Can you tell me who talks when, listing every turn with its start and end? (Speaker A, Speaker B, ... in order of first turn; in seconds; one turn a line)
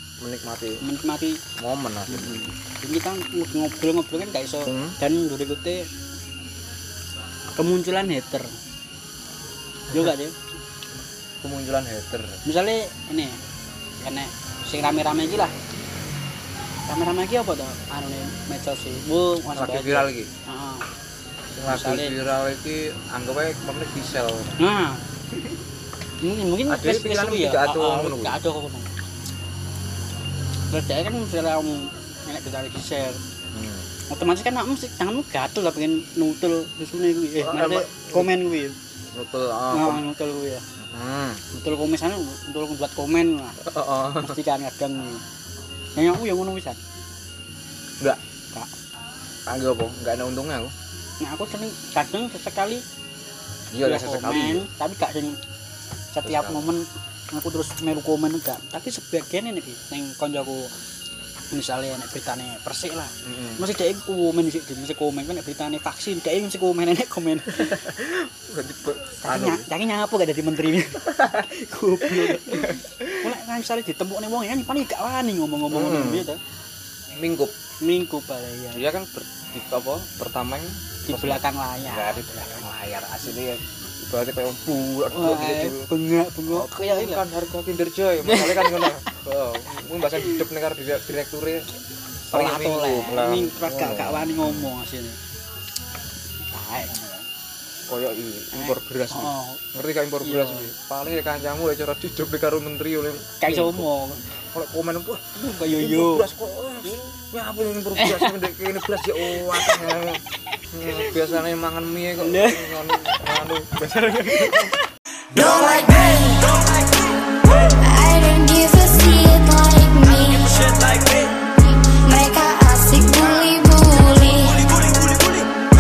Speaker A: 0.2-0.8
Speaker B: 0.8-1.4
Speaker A: 1.6-2.5
Speaker B: 2.1-5.9
Speaker A: 4.7-5.0
Speaker B: 7.5-8.6
Speaker B: 9.9-10.3
Speaker A: 11.4-12.4
Speaker B: 12.4-13.4
Speaker B: 14.0-15.6
Speaker B: 16.9-20.9
Speaker A: 19.5-20.3
Speaker A: 21.6-24.7
Speaker B: 21.7-22.2
Speaker B: 24.6-25.0
Speaker B: 26.2-28.9
Speaker A: 26.7-28.4
Speaker B: 30.7-33.2
Speaker A: 33.5-33.9
Speaker B: 34.1-38.8
Speaker A: 37.4-38.3
Speaker A: 39.1-40.1
Speaker B: 39.7-40.6
Speaker A: 40.8-41.4
Speaker B: 41.5-43.6
Speaker A: 43.6-44.4
Speaker B: 44.2-45.2
Speaker B: 46.0-46.8
Speaker A: 49.5-50.7
Speaker B: 51.2-52.8
Speaker A: 53.7-54.7
Speaker B: 53.8-55.4
Speaker B: 56.1-60.7
Speaker A: 56.2-56.7
Speaker B: 61.5-67.9
Speaker A: 63.2-63.6
Speaker A: 67.5-69.7
Speaker B: 69.2-76.4
Speaker A: 71.1-71.5
Speaker A: 72.0-73.3
Speaker A: 75.7-76.3
Speaker A: 77.2-77.5
Speaker B: 77.8-78.8
Speaker A: 78.7-85.9
Speaker B: 81.1-82.7
Speaker B: 85.1-87.2
Speaker A: 86.5-91.7
Speaker B: 88.2-89.2
Speaker B: 92.3-95.2
Speaker A: 92.3-94.7
Speaker B: 96.5-97.3
Speaker A: 97.9-114.7
Speaker B: 98.5-99.6
Speaker B: 100.2-100.7
Speaker B: 103.4-104.2
Speaker B: 105.4-106.3
Speaker B: 108.0-108.3
Speaker B: 109.3-109.8
Speaker B: 110.8-111.3
Speaker B: 112.2-113.3
Speaker B: 113.9-114.8
Speaker C: 115.3-116.7
Speaker C: 117.8-124.7